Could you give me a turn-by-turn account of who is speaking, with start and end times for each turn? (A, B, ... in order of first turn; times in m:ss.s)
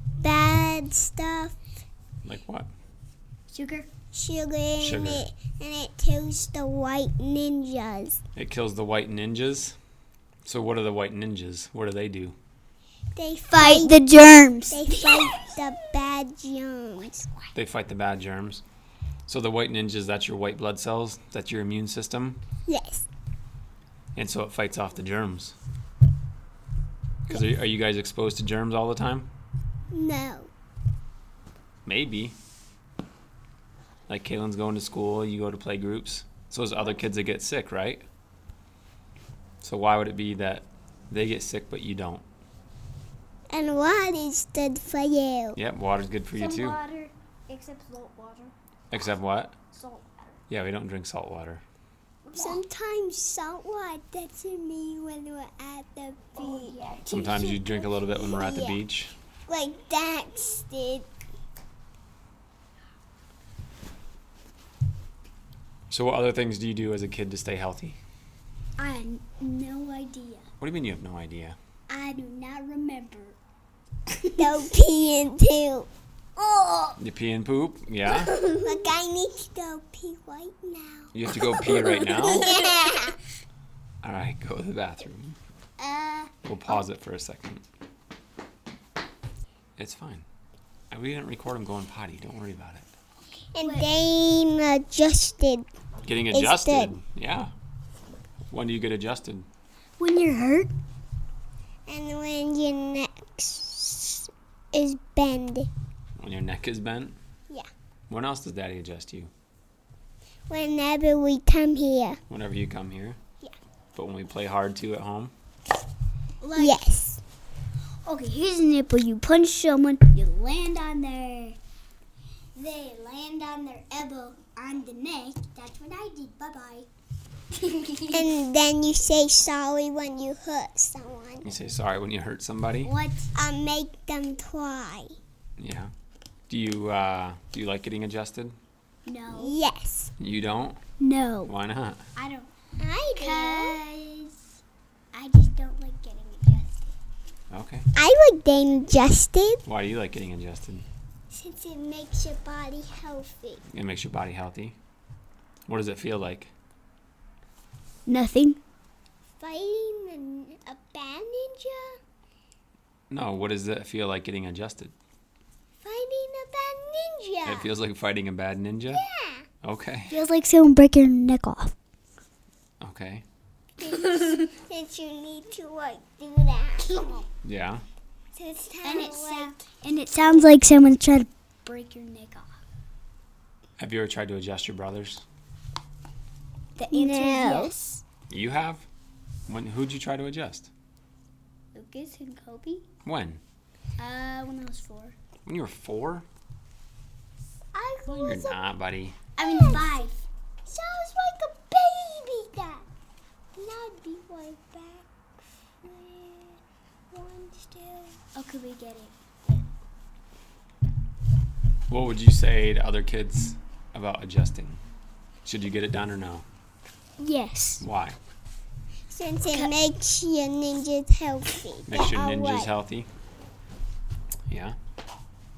0:00.2-0:01.6 A
0:02.2-0:02.7 B
0:03.5-0:03.9 C
0:04.1-0:08.2 A
0:04.8-0:05.3 B
0:08.4-0:09.8 B
0:10.4-0:12.4 B
0:13.1-0:13.9 A
0:13.5-0:15.3 C
0:14.7-0:17.3 A
0:17.5-0:18.6 B
0:19.3-0:22.4 B
0:22.7-0:23.0 A
0:24.1-0:25.6 B
0:27.3-0:29.3 B
0:29.9-0:30.5 A
0:31.8-0:32.4 B
0:34.1-0:38.0 B
0:39.6-0:42.2 B
0:43.5-0:45.6 A
0:45.6-0:46.8 B
0:46.3-0:48.5 C
0:48.9-0:49.6 B
0:49.7-0:50.4 C
0:50.5-0:51.6 B
0:52.2-0:52.6 C
0:52.4-0:56.8 A
0:56.4-0:58.0 C
0:57.0-0:59.2 B
0:58.2-0:58.8 A
0:59.5-1:01.1 A
1:05.9-1:08.0 B
1:08.8-1:10.4 C
1:10.6-1:11.6 B
1:11.9-1:13.4 C
1:14.1-1:14.4 C
1:14.4-1:15.9 A
1:16.4-1:17.0 C
1:17.0-1:18.3 B
1:18.1-1:18.8 C
1:18.4-1:23.2 A
1:21.1-1:22.6 B
1:24.0-1:25.4 B
1:25.8-1:26.3 A
1:26.4-1:27.6 B
1:29.8-1:30.2 B
1:30.9-1:32.9 B
1:33.5-1:35.7 A
1:33.6-1:33.9 C
1:36.0-1:37.5 B
1:36.3-1:36.9 A
1:38.5-1:39.5 B
1:40.0-1:40.7 C
1:41.9-1:45.7 A
1:46.2-1:47.2 B
1:48.1-1:49.3 B
1:50.5-1:52.2 A
1:52.3-1:53.2 B
1:53.9-1:55.3 B
1:56.4-1:56.8 C
1:56.6-1:57.2 A
1:58.0-2:01.6 C
2:02.5-2:06.9 C
2:07.5-2:08.3 C
2:08.1-2:11.5 A
2:11.4-2:12.9 B
2:12.8-2:13.3 C
2:13.3-2:15.1 A
2:15.6-2:15.9 B
2:16.5-2:18.5 B
2:19.0-2:19.6 C
2:19.3-2:20.1 A
2:20.2-2:20.8 B
2:21.0-2:21.5 C
2:21.4-2:22.0 B
2:22.1-2:22.5 C
2:22.8-2:23.8 A
2:23.1-2:24.4 C
2:25.1-2:26.8 C
2:27.5-2:27.9 B
2:27.9-2:29.6 A
2:29.6-2:30.8 B
2:31.3-2:33.6 A
2:33.7-2:34.8 B
2:35.7-2:36.5 B
2:38.1-2:38.6 C
2:39.4-2:42.0 A
2:43.1-2:44.9 B
2:45.8-2:47.7 A
2:47.4-2:49.0 B
2:48.9-2:49.4 A
2:49.6-2:50.2 B
2:50.1-2:51.7 C
2:52.8-2:53.2 B
2:53.8-2:57.2 A
2:56.8-2:57.2 C
2:57.4-2:57.8 B
2:58.3-2:59.6 A
2:58.8-3:02.6 C
3:00.2-3:00.5 A
3:03.8-3:05.2 B
3:06.8-3:08.0 C
3:06.9-3:07.7 A
3:08.3-3:08.8 B
3:09.5-3:10.7 B
3:11.7-3:12.8 C
3:13.0-3:13.4 B
3:14.0-3:15.2 C
3:15.4-3:16.2 B
3:17.7-3:18.6 A
3:18.0-3:18.4 C
3:18.2-3:19.2 B
3:19.4-3:20.2 C
3:19.4-3:19.9 A
3:20.6-3:22.8 A
3:23.5-3:25.1 A
3:25.8-3:26.6 A
3:27.1-3:28.2 A
3:28.4-3:29.1 C
3:31.9-3:34.8 B
3:35.4-3:36.4 B
3:37.2-3:37.8 C
3:37.8-3:38.2 B
3:39.1-3:42.7 A
3:41.9-3:43.1 B
3:44.5-3:44.8 B